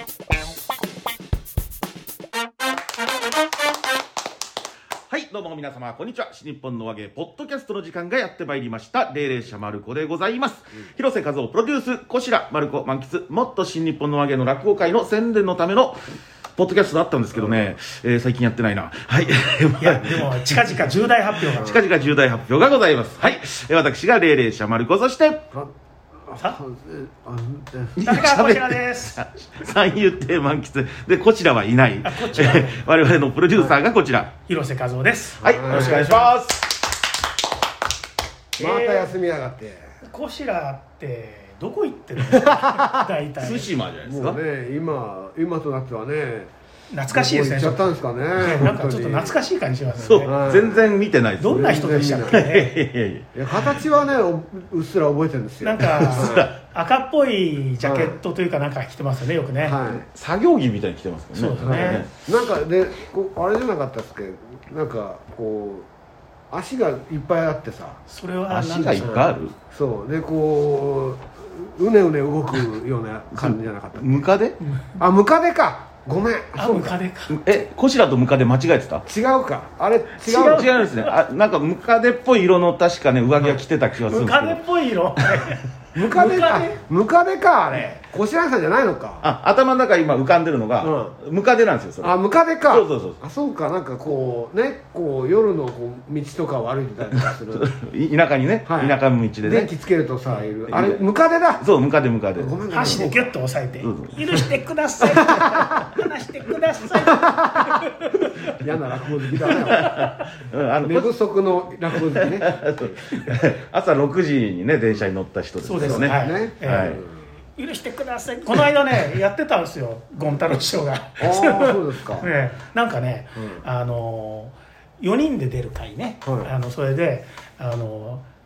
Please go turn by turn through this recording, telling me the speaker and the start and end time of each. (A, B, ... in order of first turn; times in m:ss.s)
0:05.1-0:20.6 A
0:19.8-0:21.8 B
0:21.5-0:25.5 A
0:26.3-0:28.0 C
0:28.0-0:34.3 A
0:28.0-0:29.2 B
0:32.0-0:32.8 B
0:34.5-0:36.3 B
0:35.4-0:36.8 A
0:35.4-0:36.2 C
0:38.6-0:39.1 B
0:38.6-0:39.9 C
0:40.0-0:43.7 B
0:42.2-0:43.0 C
0:43.4-0:44.4 A
0:44.0-0:46.5 C
0:46.9-0:50.3 B
0:47.1-0:49.4 C
0:50.0-0:51.7 A
0:50.2-0:50.8 C
0:51.4-0:52.7 B
0:51.4-0:52.4 C
0:52.3-0:53.8 A
0:53.3-0:56.5 C
0:55.6-0:59.8 B
0:55.8-0:56.5 A
0:57.8-0:58.2 C
0:59.6-1:00.1 C
1:00.1-1:02.1 A
1:01.3-1:02.0 B
1:01.6-1:05.9 C
1:06.5-1:08.0 C
1:08.1-1:09.3 B
1:08.5-1:09.5 A
1:09.0-1:14.3 C
1:13.3-1:14.6 A
1:15.0-1:17.0 C
1:16.6-1:17.4 B
1:17.3-1:19.0 A
1:19.1-1:20.7 C
1:20.2-1:21.1 B
1:20.3-1:24.6 A
1:24.0-1:26.8 B
1:25.9-1:29.2 C
1:29.2-1:32.2 A
1:30.8-1:31.2 C
1:32.0-1:37.7 C
1:32.7-1:33.2 A
1:37.2-1:39.7 A
1:38.6-1:41.6 C
1:40.7-1:41.0 A
1:41.6-1:43.0 A
1:42.4-1:43.3 C
1:42.7-1:48.6 B
1:43.8-1:44.4 A
1:45.1-1:45.6 C
1:47.0-1:50.1 C
1:49.4-1:51.1 A
1:49.4-1:50.0 B
1:50.8-1:53.1 C
1:51.9-1:57.0 A
1:55.6-1:57.0 B
1:55.8-1:57.1 C
1:57.6-2:08.2 B
2:01.2-2:02.3 C
2:03.4-2:03.6 C
2:06.2-2:06.5 C